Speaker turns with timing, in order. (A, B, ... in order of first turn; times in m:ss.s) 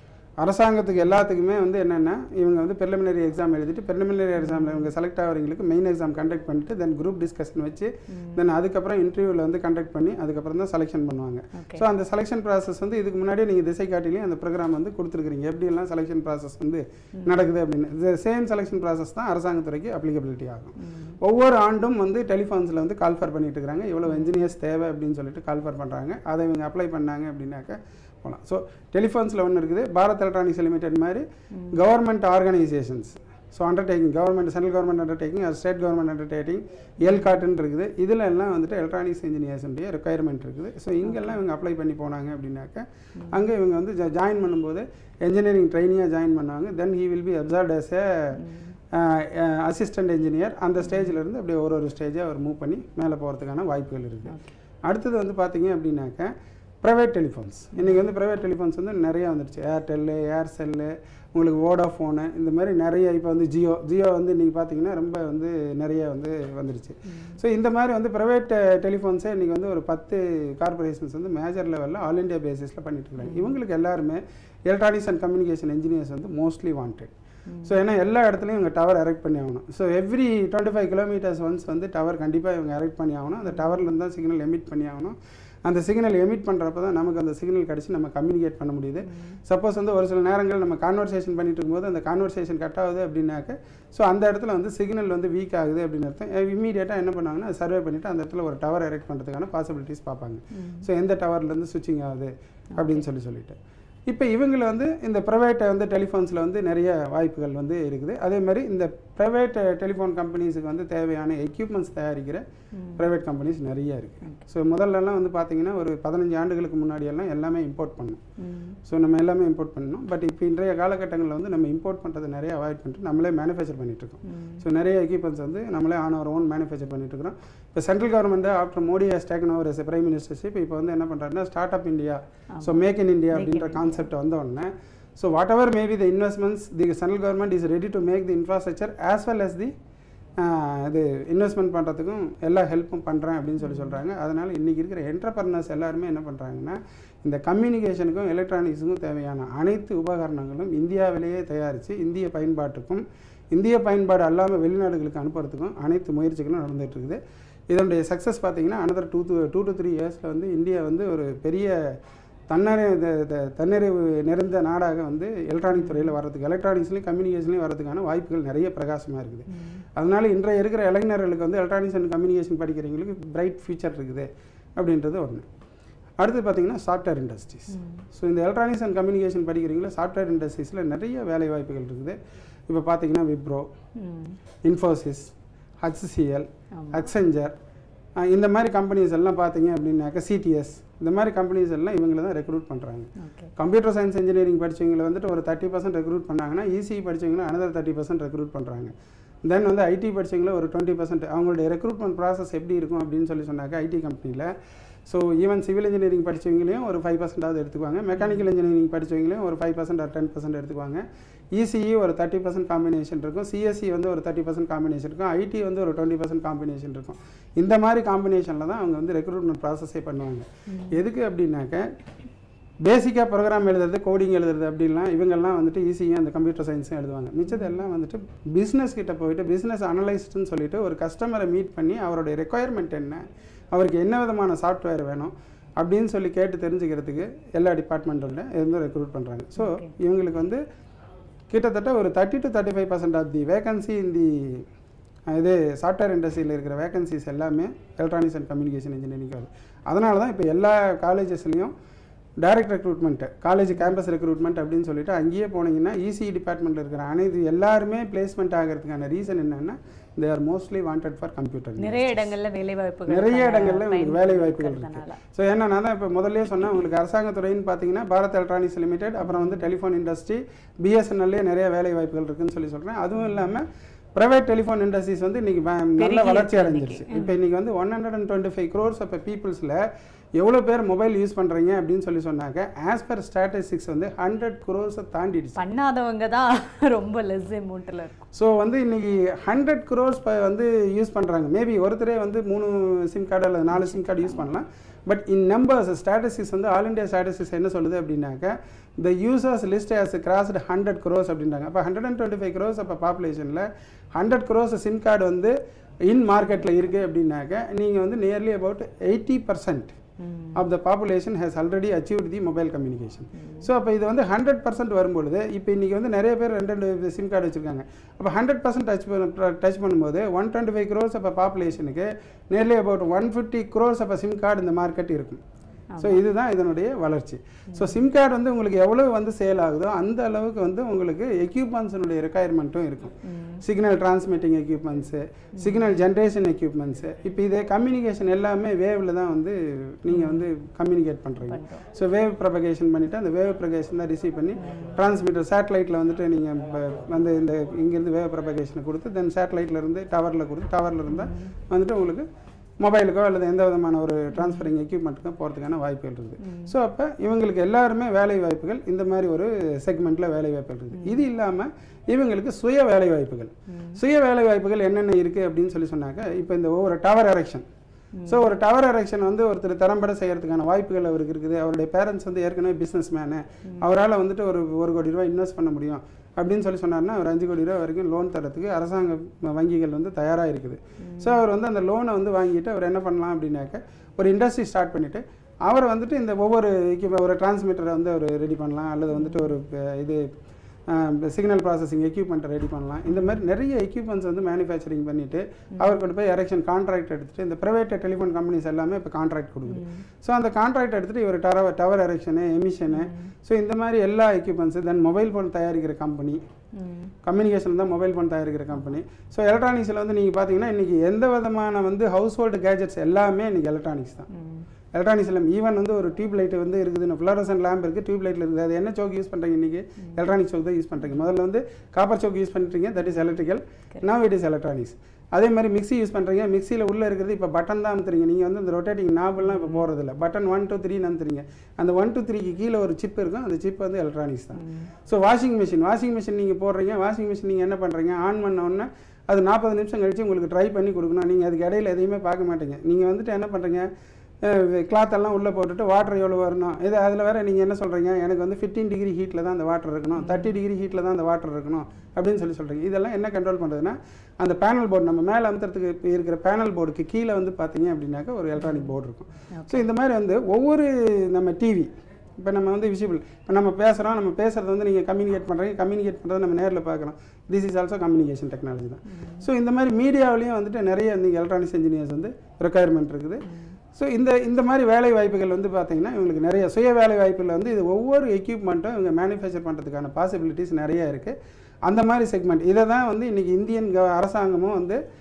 0:00.4-1:17.1 A
0:04.4-0:04.9 B
0:08.1-0:08.4 B
0:11.5-0:11.8 B
0:20.8-0:21.2 B
0:24.1-0:24.3 B
0:37.0-0:37.3 B
0:41.0-0:41.4 B
0:43.2-0:43.4 B
0:48.4-0:48.7 B
0:50.8-0:51.1 B
0:54.3-0:54.5 B
0:57.7-0:58.1 B
1:07.1-1:07.4 B
1:13.2-1:13.6 B
1:17.5-1:17.8 B
1:17.6-1:43.6 A
1:23.5-1:23.8 B
1:29.1-1:29.4 B
1:40.5-1:40.8 B
1:42.8-1:43.0 B
1:44.1-1:52.4 A
1:52.7-1:53.0 B
1:52.9-1:58.2 A
1:58.4-1:58.8 B
1:58.9-2:19.7 A
2:04.2-2:04.6 B
2:12.5-2:14.1 B
2:20.4-2:37.2 A
2:23.6-2:24.0 B
2:37.7-2:42.0 A
2:42.5-2:55.4 A
2:45.7-2:46.1 B
2:49.5-2:49.8 B
2:56.2-3:02.2 A
2:57.7-2:58.0 B
3:02.7-3:03.7 A
3:04.0-3:04.4 B
3:04.6-3:07.5 A
3:06.7-3:07.0 B
3:08.2-3:18.9 A
3:13.2-3:13.5 B
3:19.4-3:24.5 A
3:25.0-3:41.9 A
3:40.7-3:40.9 B
3:42.8-4:00.6 A
3:59.6-3:59.9 B
4:01.5-4:04.6 A
4:05.3-4:11.7 A
4:12.4-4:22.3 A
4:21.8-4:25.2 B
4:23.1-4:39.8 A
4:29.2-4:29.6 B
4:36.0-4:37.3 B
4:40.4-4:45.6 A
4:45.6-4:48.2 B
4:48.3-5:05.5 A
4:53.7-4:54.4 B
5:06.0-5:10.0 A
5:10.2-5:10.6 B
5:10.5-5:25.4 A
5:13.4-5:13.7 B
5:25.9-5:26.2 B
5:26.0-5:52.2 A
5:27.7-5:28.0 B
5:33.2-5:33.6 B
5:35.6-5:35.9 B
5:40.1-5:40.4 B
5:41.4-5:41.8 B
5:44.6-5:44.9 B
5:51.1-5:51.5 B
5:52.8-6:07.6 A
5:54.3-5:54.7 B
5:56.4-5:56.7 B
6:00.9-6:01.2 B
6:03.7-6:04.0 B
6:08.2-6:08.4 B
6:08.2-6:30.3 A
6:21.0-6:21.4 B
6:29.1-6:29.5 B
6:30.9-6:46.4 A
6:33.1-6:33.4 B
6:39.7-6:40.0 B
6:42.9-6:43.3 B
6:46.7-6:47.1 B
6:47.2-6:54.3 A
6:54.3-6:54.6 B
6:54.9-7:23.9 A
7:09.4-7:09.8 B
7:14.6-7:14.9 B
7:24.4-8:05.0 A
7:30.2-7:30.5 B
7:39.5-7:39.8 B
7:49.1-7:49.4 B
7:53.4-7:53.8 B